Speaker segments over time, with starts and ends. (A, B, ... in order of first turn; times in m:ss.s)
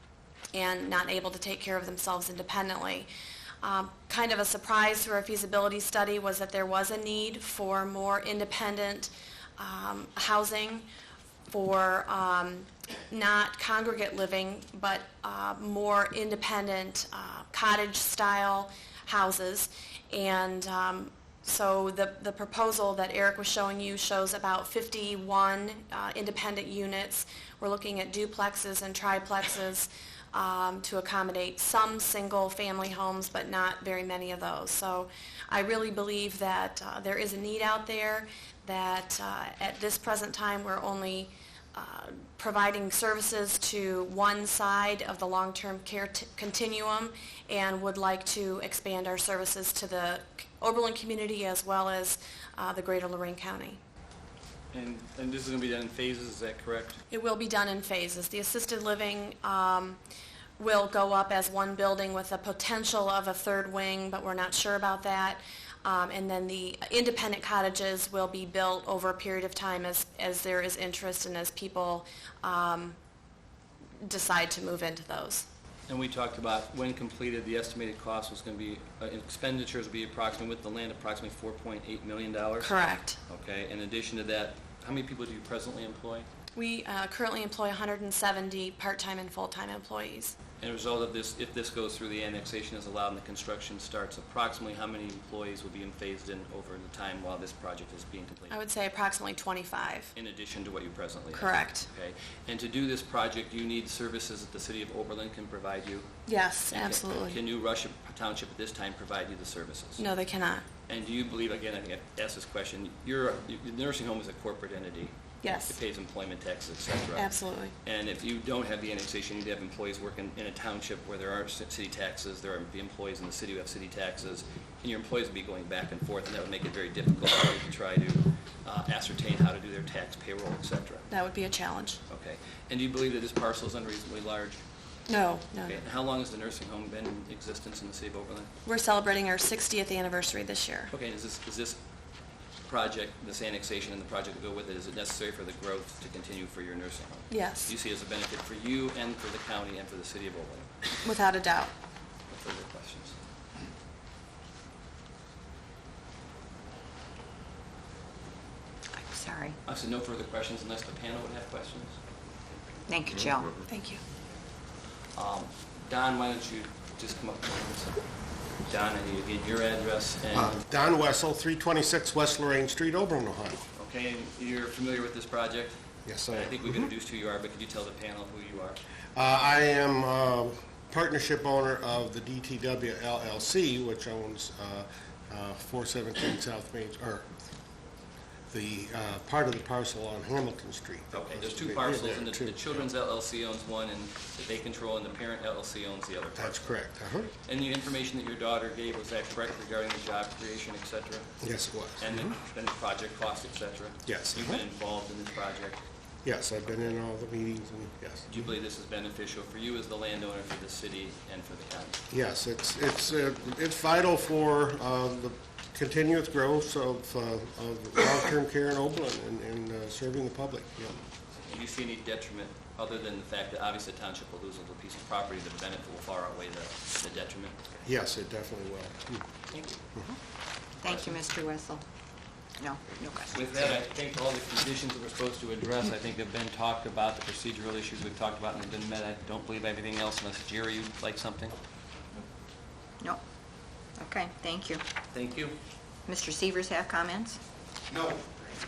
0:00.5-0:03.1 A
0:03.6-0:10.8 A
0:11.5-0:53.8 A
0:54.7-0:57.0 B
0:57.1-1:00.0 A
1:00.6-1:13.0 A
1:14.0-1:15.5 A
1:15.9-1:22.8 B
1:22.6-1:23.2 A
1:23.3-1:26.3 B
1:26.5-1:30.4 A
1:30.6-1:38.6 B
1:38.5-1:40.1 A
1:40.1-1:46.1 B
1:41.3-1:41.9 A
1:46.2-1:47.4 A
1:46.7-1:50.0 B
1:50.0-1:50.6 A
1:50.9-1:57.3 B
1:55.4-1:55.8 A
1:57.1-1:57.7 A
1:57.8-2:11.0 B
2:11.1-2:12.0 A
2:12.1-2:14.6 B
2:15.1-2:15.8 A
2:15.6-2:18.5 B
2:18.6-2:20.9 A
2:20.9-2:21.8 B
2:22.7-2:30.7 B
2:27.3-2:27.7 A
2:31.0-2:31.7 A
2:32.3-2:33.1 B
2:38.9-2:39.6 C
2:39.6-2:42.0 B
2:42.9-2:43.6 C
2:43.7-2:44.0 A
2:45.1-2:48.0 B
2:48.6-2:50.6 B
2:50.3-2:53.6 D
2:53.8-2:55.8 B
2:56.0-2:56.8 D
2:56.3-2:58.8 B
2:59.1-3:07.3 D
3:08.5-3:12.7 D
3:11.1-3:16.8 B
3:16.4-3:17.3 D
3:17.4-3:21.4 B
3:21.4-3:22.3 D
3:22.0-3:25.8 B
3:24.1-3:24.6 D
3:26.2-3:28.5 D
3:28.3-3:32.0 B
3:32.1-3:41.0 D
3:41.5-3:47.6 B
3:47.8-3:49.2 D
3:49.5-3:49.8 B
3:50.8-3:51.8 C
3:52.6-3:53.7 C
3:53.3-4:01.5 B
4:04.0-4:04.8 C
4:05.1-4:05.6 B
4:06.1-4:07.4 C
4:07.9-4:08.2 B